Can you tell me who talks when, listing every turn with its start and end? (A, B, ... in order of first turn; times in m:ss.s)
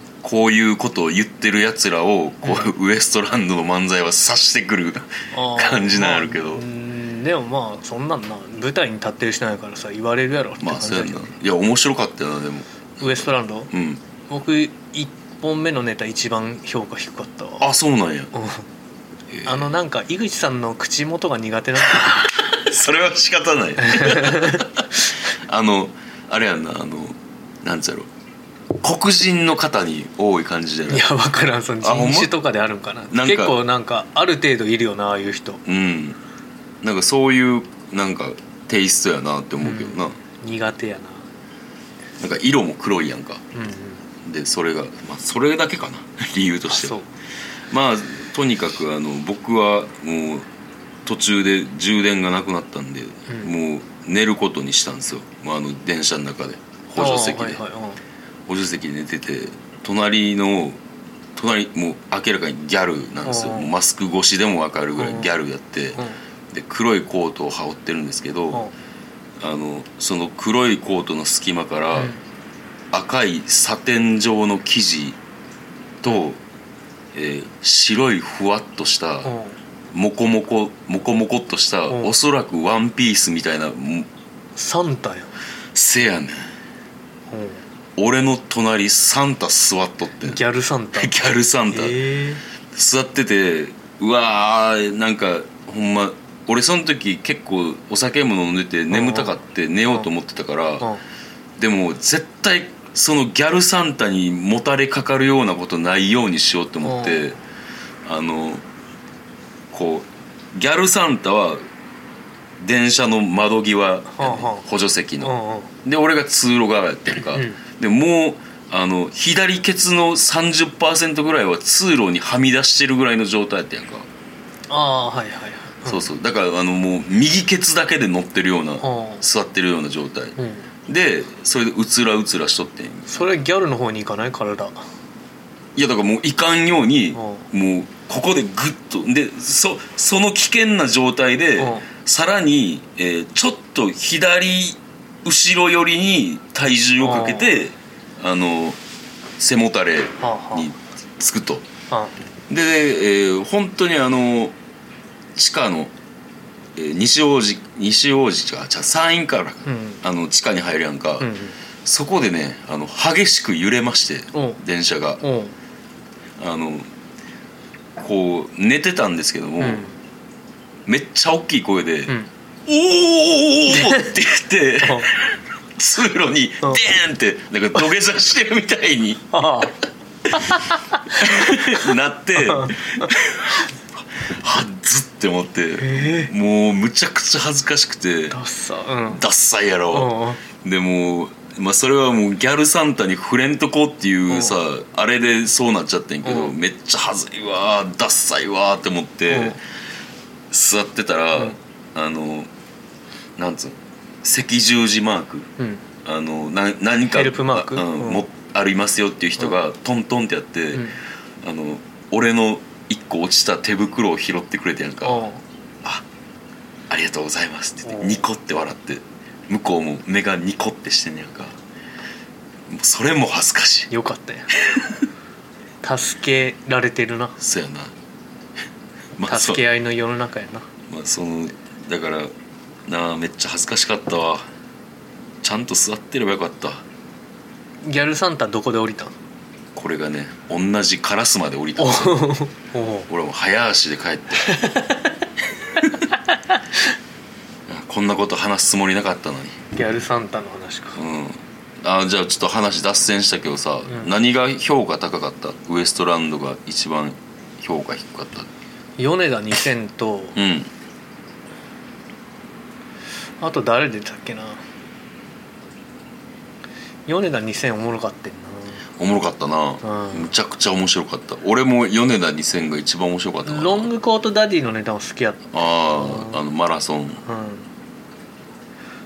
0:00.2-0:06.6 A
0:02.4-0:02.7 B
0:05.3-0:11.3 B
0:10.6-0:14.0 A
0:13.0-0:13.7 B
0:14.3-0:17.7 B
0:17.6-0:18.3 A
0:18.3-0:18.7 B
0:19.3-0:19.7 A
0:19.4-0:22.3 B
0:21.9-0:28.1 A
0:23.8-0:24.7 B
0:28.8-0:31.1 A
0:30.9-0:35.6 B
0:31.8-0:32.3 A
0:33.1-0:33.6 A
0:35.7-0:36.2 A
0:36.8-0:40.2 A
0:39.6-0:41.3 B
0:42.2-0:43.4 A
0:43.5-0:44.0 B
0:44.2-0:47.0 A
0:46.7-0:47.1 B
0:47.7-0:50.5 A
0:51.0-0:57.6 A
0:53.3-0:53.5 B
0:57.0-0:58.0 B
0:58.5-1:00.8 A
1:01.4-1:08.7 A
1:03.2-1:03.7 B
1:05.0-1:05.3 B
1:09.4-1:12.1 A
1:12.0-1:12.2 B
1:12.9-1:15.2 A
1:16.0-1:16.4 A
1:17.1-1:19.3 A
1:19.2-1:19.6 B
1:19.9-1:24.1 A
1:24.6-1:25.3 B
1:25.7-1:26.5 A
1:27.3-1:27.6 B
1:28.0-1:30.4 A
1:30.2-1:31.2 B
1:31.0-1:32.0 A
1:31.7-1:32.4 B
1:32.7-1:40.9 A
1:38.9-1:39.4 B
1:41.6-1:47.4 A
1:46.8-1:47.4 B
1:48.0-1:48.6 A
1:49.7-1:51.6 A
1:52.6-2:04.1 A
1:54.1-1:54.6 B
1:55.2-1:55.7 B
1:57.3-1:57.6 B
2:04.7-2:06.1 B
2:05.8-2:10.4 A
2:08.8-2:09.2 B
2:10.4-2:10.7 B
2:10.9-2:13.3 A
2:13.1-2:14.8 B
2:15.8-2:28.8 A
2:17.2-2:17.5 B
2:21.6-2:21.9 B
2:27.0-2:27.6 B
2:29.4-2:31.7 A
2:30.2-2:30.7 B
2:31.9-2:32.2 B
2:32.5-2:34.6 A
2:35.4-2:35.9 A
2:36.8-2:41.3 A
2:39.7-2:40.0 B
2:41.2-2:41.6 B
2:41.8-2:45.2 A
2:44.3-2:44.6 B
2:45.2-2:45.5 B
2:46.4-2:46.9 A
2:48.0-2:49.9 A
2:49.6-2:50.0 B
2:50.9-2:52.1 A
2:52.7-2:59.3 A
2:53.7-2:54.1 B
2:54.8-2:55.1 B
2:59.3-2:59.8 B
3:00.3-3:08.4 A
3:00.3-3:03.1 B
3:05.8-3:06.3 B
3:08.3-3:09.2 B
3:09.1-3:19.6 A
3:09.9-3:10.4 B
3:14.3-3:14.6 B
3:16.2-3:16.6 B
3:19.3-3:19.6 B
3:20.5-3:22.5 A
3:23.4-3:25.5 A
3:26.0-3:30.9 A
3:27.1-3:28.2 B
3:31.4-3:35.2 A
3:35.0-3:35.4 B
3:36.9-3:41.6 A
3:37.8-3:38.3 B
3:42.7-3:43.9 A
3:43.9-3:44.5 B
3:44.5-3:45.0 A
3:45.8-3:47.4 B
3:47.4-3:47.9 A
3:49.2-3:49.6 A
3:49.2-3:50.7 B
3:50.9-3:52.3 A
3:52.9-3:54.5 A
3:55.4-3:56.8 A
3:57.8-3:59.1 B
3:59.8-4:02.2 A
4:01.8-4:03.1 B
4:03.1-4:04.6 A
4:04.4-4:05.1 B
4:06.1-4:06.8 B
4:07.7-4:09.6 A
4:09.7-4:11.0 B
4:11.0-4:18.5 A
4:13.9-4:14.1 B
4:19.0-4:20.4 B
4:20.4-4:20.7 A
4:23.4-4:24.6 B
4:27.1-4:28.8 B
4:29.0-4:33.9 A
4:29.8-4:30.3 B
4:33.4-4:36.4 B
4:35.5-4:37.2 A
4:37.2-4:37.7 B